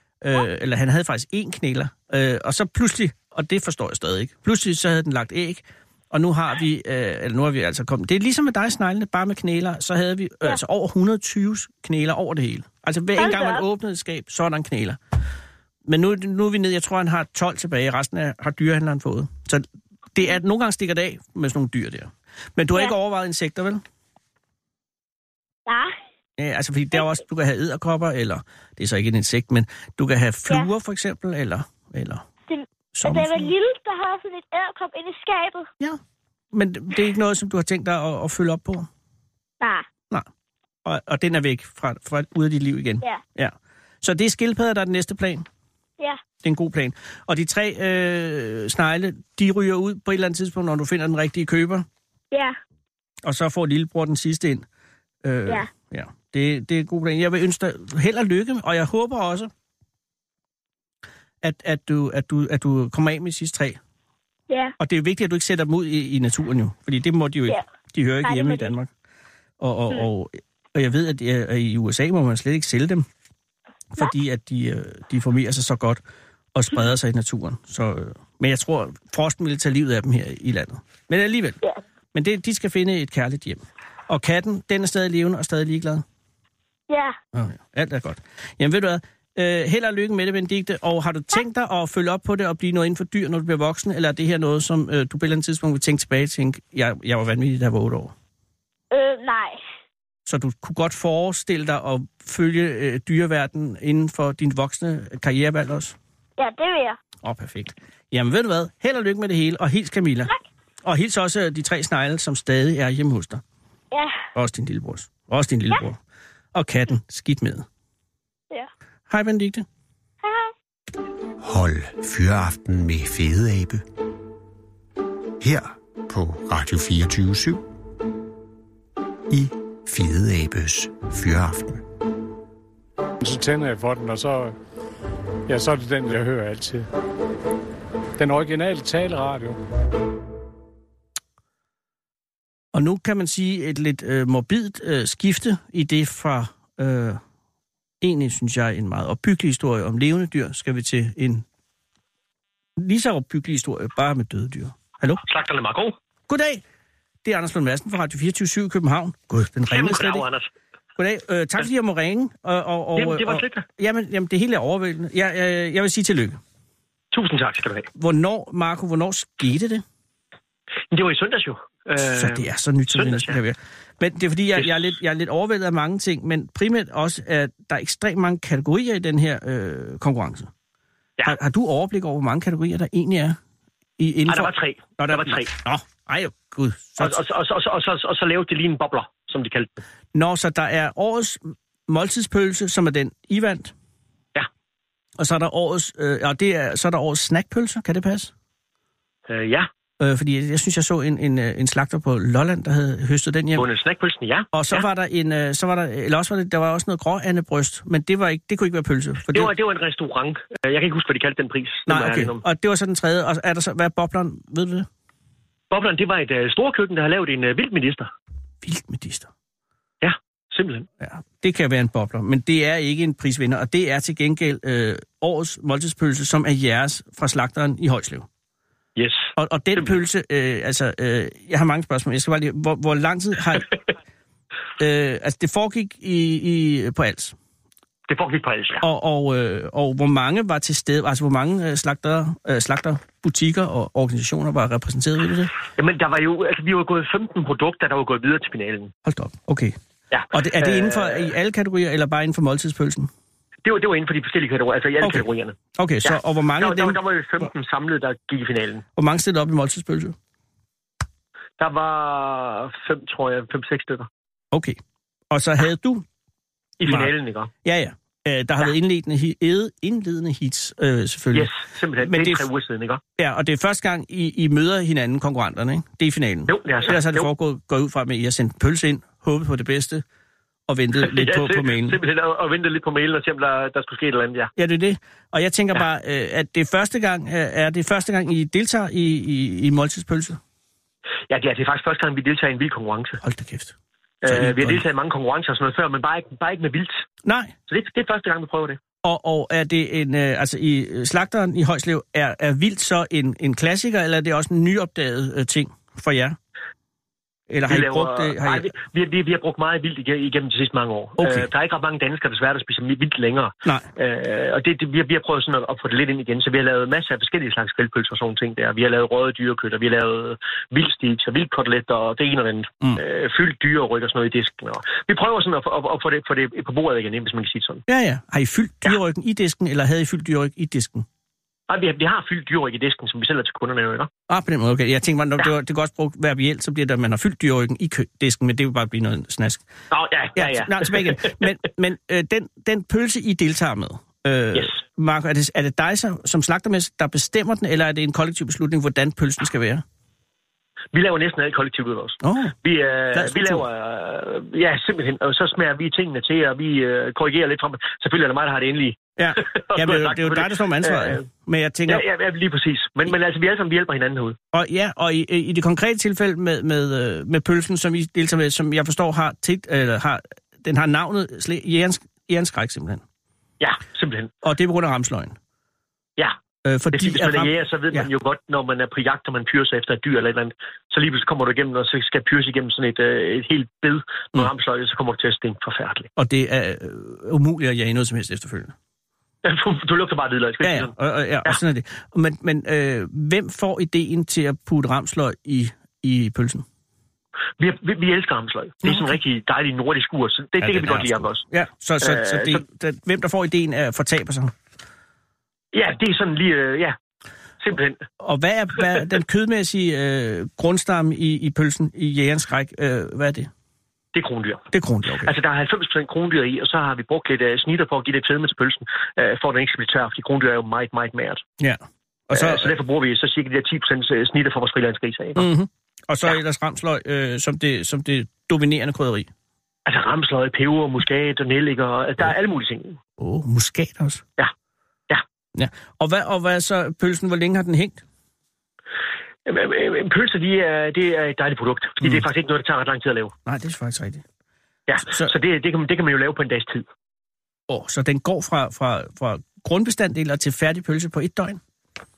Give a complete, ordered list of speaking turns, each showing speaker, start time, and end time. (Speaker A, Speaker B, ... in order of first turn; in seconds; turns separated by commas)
Speaker A: 0.2-15.0, Speaker B: 13.2-13.6, Speaker A: 15.8-23.8, Speaker B: 25.7-25.9, Speaker A: 26.4-32.2, Speaker B: 32.5-35.7, Speaker A: 32.9-33.5, Speaker A: 36.5-38.9, Speaker B: 39.6-39.9, Speaker A: 40.8-45.5, Speaker A: 46.4-51.9, Speaker A: 53.2-54.6, Speaker A: 55.2-59.5, Speaker A: 61.4-63.8, Speaker B: 64.5-64.8, Speaker A: 64.8-68.9, Speaker B: 68.2-68.7, Speaker A: 69.6-73.0, Speaker A: 73.9-76.0, Speaker A: 76.5-81.6, Speaker A: 82.1-86.0, Speaker B: 86.9-87.2, Speaker A: 87.3-98.1, Speaker B: 98.9-99.6, Speaker A: 100.2-106.0, Speaker B: 106.4-107.0, Speaker A: 107.2-110.3, Speaker A: 110.8-113.4, Speaker B: 113.9-114.2, Speaker A: 114.3-116.0, Speaker A: 116.5-117.7, Speaker A: 119.1-119.7, Speaker B: 120.2-120.5, Speaker C: 121.4-123.8, Speaker C: 125.4-127.6, Speaker C: 129.3-131.8, Speaker D: 133.2-134.5, Speaker D: 135.5-136.8, Speaker D: 138.2-139.6, Speaker A: 142.7-147.2, Speaker A: 148.0-151.4, Speaker A: 152.8-155.2, Speaker E: 155.2-155.9, Speaker A: 156.3-156.6, Speaker A: 157.2-160.2, Speaker E: 159.7-160.5, Speaker A: 161.0-166.4, Speaker E: 162.9-163.6, Speaker E: 167.1-167.9, Speaker A: 167.9-169.8, Speaker E: 170.9-173.4, Speaker A: 172.0-180.5, Speaker A: 181.2-183.4, Speaker A: 184.0-187.2, Speaker E: 184.3-185.5, Speaker E: 187.0-189.7, Speaker A: 190.1-193.7, Speaker A: 195.2-198.3, Speaker E: 199.3-199.7, Speaker A: 200.0-203.6, Speaker E: 203.5-204.8, Speaker A: 204.5-209.5, Speaker E: 209.3-212.4, Speaker A: 211.9-214.9, Speaker E: 215.7-218.1, Speaker A: 218.6-219.3, Speaker E: 220.0-220.9, Speaker A: 221.0-228.3, Speaker E: 229.0-229.9, Speaker A: 229.4-233.7, Speaker A: 234.8-237.3, Speaker E: 238.1-238.8, Speaker A: 238.8-245.5, Speaker E: 245.8-248.9, Speaker A: 249.0-249.8, Speaker E: 250.1-251.3, Speaker A: 250.3-253.1, Speaker E: 253.6-258.8, Speaker A: 255.0-257.0, Speaker A: 259.0-260.1, Speaker E: 261.6-264.1, Speaker A: 264.5-264.8, Speaker A: 265.3-266.0, Speaker E: 266.8-267.5, Speaker A: 266.8-267.1, Speaker A: 267.6-272.5, Speaker E: 271.3-273.0, Speaker A: 273.2-280.0, Speaker E: 276.5-277.3, Speaker A: 280.7-282.0, Speaker E: 281.0-284.5, Speaker A: 284.6-290.4, Speaker E: 291.3-293.2, Speaker A: 293.2-294.8, Speaker E: 294.2-297.0, Speaker A: 297.2-297.5, Speaker E: 297.7-298.8, Speaker A: 299.0-306.4, Speaker A: 307.5-308.7, Speaker E: 307.7-327.8, Speaker A: 311.2-311.5, Speaker A: 327.9-331.1, Speaker E: 331.7-334.1, Speaker A: 334.3-339.6, Speaker E: 339.9-341.4, Speaker A: 340.4-349.8, Speaker E: 350.9-361.2, Speaker A: 352.2-352.6, Speaker A: 353.1-353.6, Speaker A: 359.2-362.0, Speaker E: 361.9-364.4, Speaker A: 364.5-373.0, Speaker E: 373.6-374.3, Speaker A: 374.4-375.4, Speaker A: 376.6-378.1, Speaker E: 376.9-386.1, Speaker A: 386.2-388.7, Speaker E: 389.4-390.9, Speaker A: 390.6-396.6, Speaker E: 397.6-401.4, Speaker A: 398.8-399.1, Speaker A: 400.6-404.5, Speaker E: 402.0-402.6, Speaker E: 405.7-407.0, Speaker E: 407.6-408.0, Speaker A: 408.2-413.5, Speaker E: 414.1-414.6, Speaker A: 414.7-415.3, Speaker E: 415.2-421.4, Speaker A: 421.6-422.7, Speaker E: 422.3-425.5, Speaker A: 425.4-429.3, Speaker E: 429.9-433.0, Speaker A: 433.2-434.2, Speaker A: 435.5-438.0, Speaker E: 439.5-443.3, Speaker A: 443.5-444.2, Speaker E: 444.9-446.9, Speaker A: 445.1-445.3, Speaker A: 447.7-451.6